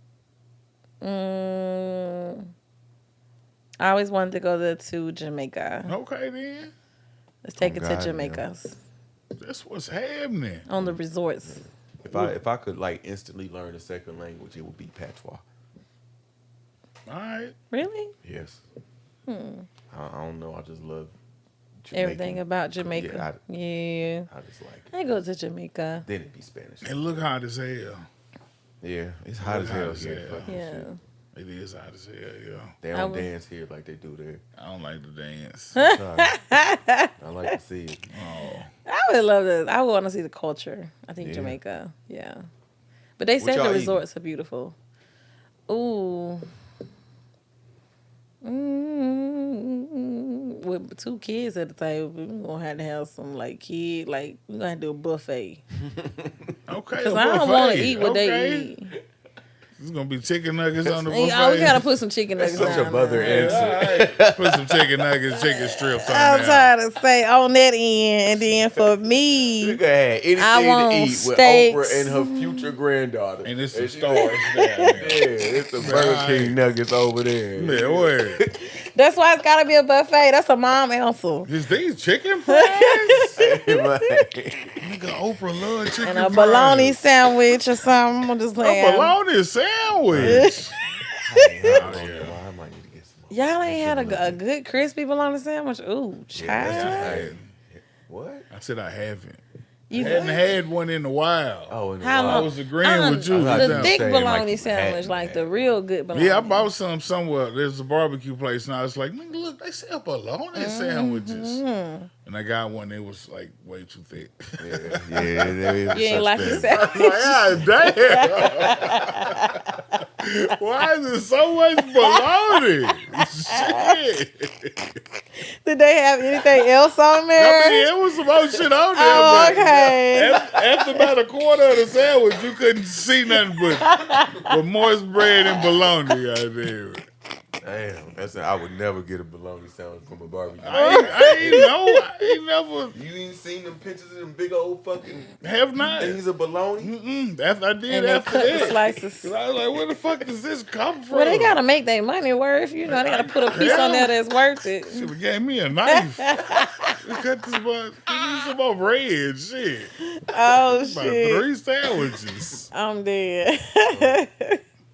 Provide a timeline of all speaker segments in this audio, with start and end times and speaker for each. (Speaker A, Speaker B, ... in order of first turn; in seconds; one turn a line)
Speaker A: 1.0-2.5
Speaker A: 3.8-5.9
Speaker B: 5.8-6.7
Speaker A: 7.4-8.8
Speaker C: 7.6-8.4
Speaker B: 9.4-10.7
Speaker A: 10.7-11.7
Speaker C: 10.8-15.4
Speaker B: 12.1-12.4
Speaker B: 17.1-17.5
Speaker A: 17.7-18.1
Speaker C: 18.2-18.6
Speaker A: 19.3-19.7
Speaker C: 19.9-21.1
Speaker C: 21.8-23.4
Speaker A: 21.9-24.3
Speaker C: 24.3-24.9
Speaker A: 24.9-26.1
Speaker C: 26.1-26.9
Speaker B: 26.8-28.0
Speaker C: 28.8-30.8
Speaker B: 29.4-30.6
Speaker A: 30.5-31.0
Speaker B: 31.3-32.7
Speaker C: 32.8-34.4
Speaker A: 32.9-33.3
Speaker B: 34.6-35.8
Speaker A: 35.8-37.5
Speaker C: 35.8-36.3
Speaker C: 37.2-38.1
Speaker B: 38.1-38.7
Speaker A: 38.9-42.4
Speaker C: 41.2-41.6
Speaker A: 43.2-44.8
Speaker C: 43.4-44.0
Speaker A: 45.7-46.5
Speaker A: 48.4-55.6
Speaker C: 55.9-56.5
Speaker B: 56.7-58.7
Speaker A: 57.0-58.9
Speaker B: 59.8-62.0
Speaker A: 61.0-63.8
Speaker C: 62.4-65.1
Speaker B: 62.5-66.7
Speaker A: 65.4-69.8
Speaker C: 68.4-68.8
Speaker C: 69.6-74.4
Speaker A: 70.3-72.7
Speaker B: 73.4-75.2
Speaker A: 74.2-74.9
Speaker C: 74.9-78.6
Speaker B: 75.8-76.6
Speaker B: 77.5-78.4
Speaker A: 78.9-81.5
Speaker B: 81.5-83.4
Speaker A: 82.5-84.0
Speaker C: 83.3-84.7
Speaker B: 84.8-87.0
Speaker A: 86.0-89.1
Speaker B: 88.6-90.7
Speaker C: 90.1-90.5
Speaker A: 90.2-92.0
Speaker C: 91.2-94.4
Speaker B: 91.7-92.4
Speaker A: 93.3-97.2
Speaker C: 96.3-98.5
Speaker B: 96.6-97.5
Speaker B: 98.5-99.4
Speaker A: 99.9-100.5
Speaker B: 99.9-104.0
Speaker C: 99.9-100.5
Speaker C: 101.7-102.5
Speaker A: 102.0-106.7
Speaker C: 103.3-105.7
Speaker B: 106.1-111.6
Speaker A: 110.5-112.1
Speaker B: 112.2-119.5
Speaker C: 114.6-116.7
Speaker A: 115.9-120.0
Speaker B: 120.2-125.0
Speaker A: 121.8-122.6
Speaker A: 123.2-124.0
Speaker A: 125.4-127.9
Speaker B: 127.4-137.1
Speaker A: 128.9-131.1
Speaker C: 129.1-129.7
Speaker A: 133.3-134.6
Speaker A: 135.2-136.2
Speaker C: 137.6-141.7
Speaker B: 140.6-142.9
Speaker A: 140.7-142.0
Speaker C: 142.9-146.9
Speaker B: 145.4-146.2
Speaker B: 146.8-151.6
Speaker A: 147.9-149.3
Speaker C: 148.5-148.9
Speaker A: 151.1-155.1
Speaker B: 152.8-154.1
Speaker B: 154.8-162.7
Speaker A: 155.9-156.9
Speaker A: 160.2-161.4
Speaker A: 162.7-164.6
Speaker C: 163.9-164.2